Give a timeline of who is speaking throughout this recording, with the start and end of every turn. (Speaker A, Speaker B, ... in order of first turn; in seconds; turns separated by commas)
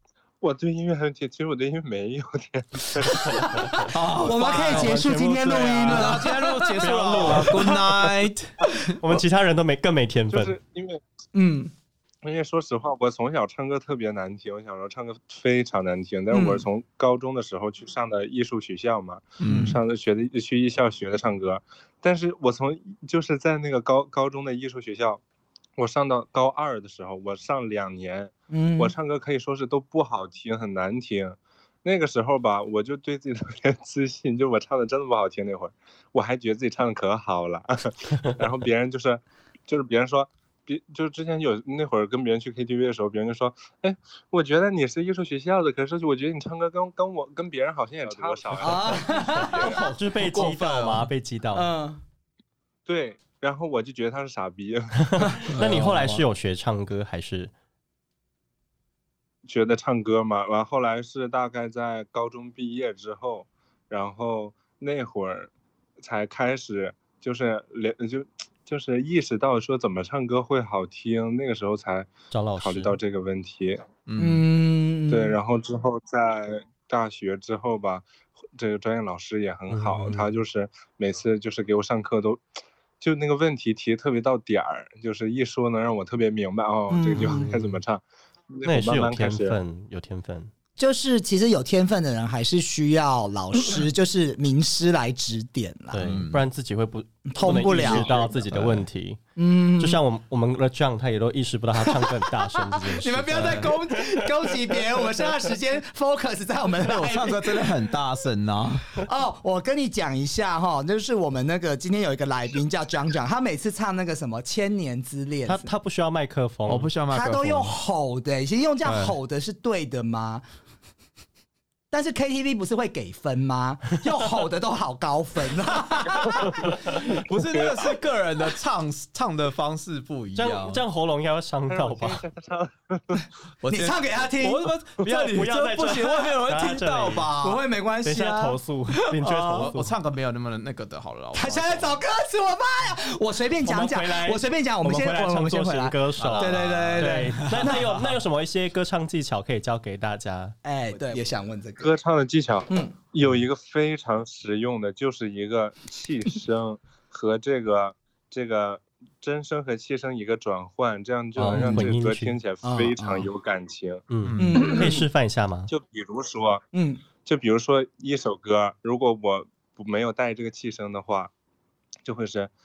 Speaker A: 0.4-3.8, Speaker B: 3.3-7.8, Speaker C: 3.9-5.0, Speaker D: 4.4-7.7, Speaker C: 5.8-8.7, Speaker D: 8.9-10.5, Speaker A: 10.3-11.0, Speaker B: 11.3-11.7, Speaker A: 12.2-25.2, Speaker B: 16.3-16.6, Speaker C: 19.4-19.8, Speaker A: 25.8-49.8, Speaker B: 28.5-28.9, Speaker B: 48.6-49.7, Speaker C: 49.5-51.1, Speaker D: 49.6-51.7, Speaker B: 51.5-52.0, Speaker A: 52.9-55.5, Speaker D: 55.2-57.5, Speaker C: 55.5-56.2, Speaker A: 59.5-73.8, Speaker D: 72.3-73.0, Speaker C: 74.0-74.5, Speaker B: 74.2-75.4, Speaker A: 75.1-82.4, Speaker D: 79.7-80.3, Speaker A: 83.0-89.6, Speaker B: 86.9-87.5, Speaker D: 87.3-87.8, Speaker D: 88.6-90.5, Speaker B: 90.8-96.0, Speaker D: 95.9-99.2, Speaker C: 96.0-96.4, Speaker B: 97.3-98.2, Speaker C: 97.7-98.9, Speaker B: 99.4-100.0, Speaker D: 99.8-104.8, Speaker B: 101.9-107.7, Speaker C: 106.8-109.0, Speaker B: 109.0-115.7, Speaker D: 115.5-116.9, Speaker C: 116.7-117.8, Speaker B: 117.1-120.4, Speaker C: 118.8-119.2, Speaker B: 121.9-126.8, Speaker C: 127.1-130.8, Speaker A: 127.6-127.9, Speaker D: 130.3-132.2, Speaker A: 131.7-133.2, Speaker C: 133.6-137.6, Speaker B: 133.7-134.7, Speaker D: 135.1-137.3, Speaker B: 137.4-138.6, Speaker D: 138.0-139.9, Speaker C: 139.2-142.0, Speaker B: 141.3-148.2, Speaker D: 143.6-150.6, Speaker C: 146.2-147.8, Speaker B: 150.6-151.9, Speaker A: 151.8-164.0, Speaker B: 152.7-152.9, Speaker D: 161.4-162.4, Speaker B: 161.5-161.8, Speaker B: 162.6-163.3, Speaker D: 164.1-165.7, Speaker C: 164.2-164.7, Speaker B: 164.4-165.1, Speaker A: 165.7-166.6, Speaker B: 166.7-167.0, Speaker A: 167.2-171.3, Speaker A: 172.0-172.5